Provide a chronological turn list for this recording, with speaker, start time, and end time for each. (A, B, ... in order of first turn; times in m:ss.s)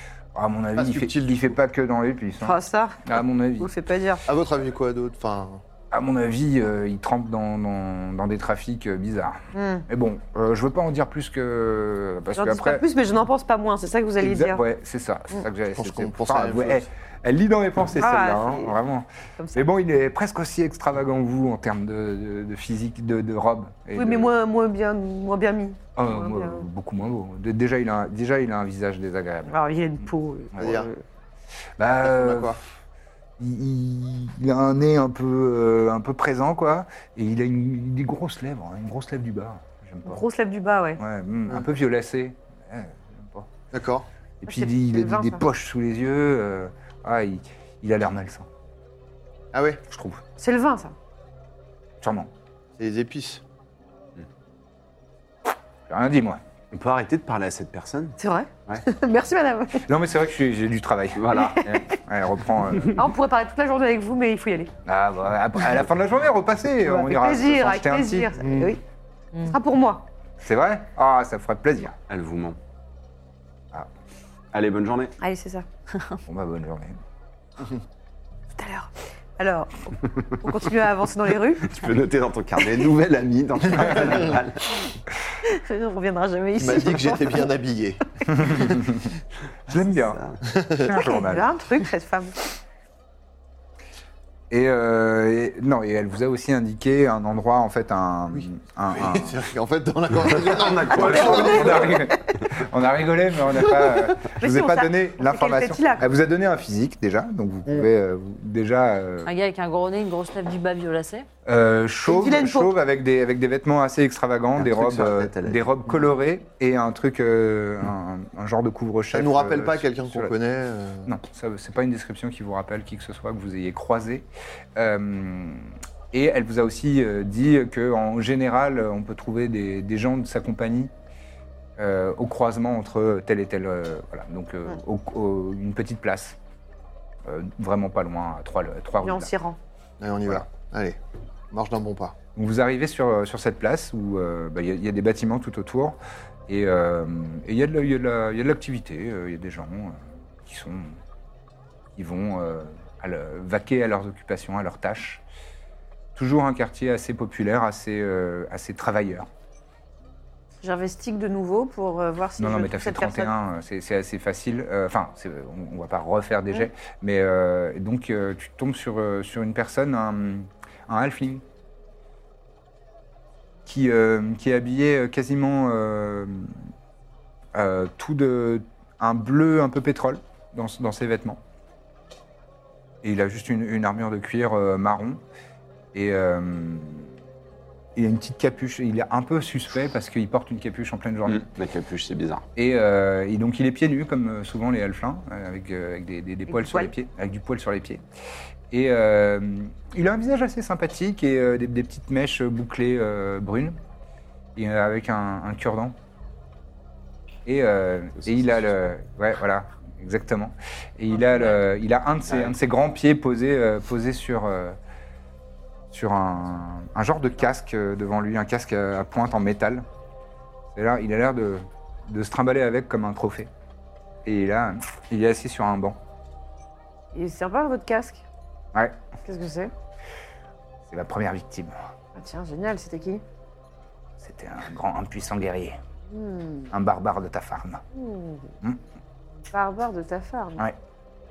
0:00.3-0:03.7 A
0:00.8-0:01.6 B
0:02.4-0:04.3 C
0:04.3-0:05.6 B
0:05.9-0:12.8 A
0:09.5-0:09.9 C
0:12.4-0:14.6 C
0:14.2-0:24.3 A
0:15.8-0:16.9 B
0:18.0-0:18.8 C
0:19.4-0:19.6 C
0:23.9-0:26.7 C
0:26.0-0:29.6 A
0:29.5-0:31.0 C
0:30.6-0:30.9 B
0:31.8-0:32.6 A
0:32.0-0:32.6 B
0:33.4-0:40.2 A
0:40.0-0:41.0 C
0:41.0-0:43.5 A
0:43.7-0:44.1 B
0:44.4-0:48.5 A
0:44.5-0:45.5 C
0:49.5-0:49.8 B
0:49.9-0:50.2 A
0:50.4-0:50.9 C
0:52.0-0:52.3 A
0:52.8-0:53.4 B
0:55.9-0:56.4 A
0:56.7-0:58.8 D
0:58.2-0:59.9 C
0:59.9-1:03.0 A
1:01.2-1:01.8 D
1:03.0-1:04.7 C
1:04.9-1:08.3 A
1:06.8-1:08.8 C
1:08.4-1:08.8 B
1:09.4-1:10.1 C
1:10.4-1:12.0 A
1:12.1-1:12.6 D
1:14.5-1:15.2 D
1:15.2-1:15.7 C
1:16.3-1:17.0 A
1:18.5-1:21.8 C
1:21.6-1:24.9 D
1:25.4-1:27.5 C
1:26.6-1:28.8 B
1:28.3-1:30.2 A
1:29.9-1:30.4 D
1:30.5-1:30.9 B
1:30.8-1:31.5 A
1:30.9-1:32.4 C
1:34.5-1:39.4 A
1:38.3-1:41.9 B
1:40.2-1:41.8 D
1:41.0-1:49.3 A
1:41.0-1:42.1 C
1:44.3-1:46.1 C
1:49.2-1:51.3 E
1:51.5-2:00.3 A
1:52.1-1:52.7 C
1:54.6-1:55.6 D
1:54.8-1:55.2 B
1:59.1-2:01.1 B
2:01.1-2:10.9 A
2:11.8-2:16.4 A
2:17.2-2:19.3 A
2:19.0-2:19.6 C
2:20.0-2:21.0 B
2:21.5-2:22.2 B
2:22.4-2:26.0 A
2:26.5-2:31.0 A
2:32.0-2:35.2 A
2:36.2-2:39.3 A
2:40.6-2:43.3 C
2:42.4-2:51.4 A
2:53.7-2:56.6 A
2:57.5-3:01.4 A
3:03.0-3:05.2 A
3:05.9-3:07.1 A
3:08.0-3:11.5 A
3:11.3-3:12.4 D
3:12.6-3:18.0 A
3:16.5-3:16.9 C
3:18.7-3:23.8 A
3:24.6-3:26.0 A
3:27.5-3:34.8 A
3:28.2-3:28.6 D
3:32.3-3:32.5 D
3:35.9-3:39.9 A
3:40.7-3:43.5 A
3:44.2-3:46.0 A
3:47.1-3:48.2 C
3:49.2-3:49.7 C
3:50.9-3:51.8 A
3:52.2-3:53.2 C
3:54.2-3:55.8 A
3:56.1-3:56.7 C
3:56.7-3:57.8 A
3:57.9-3:58.5 C
3:59.5-4:00.6 C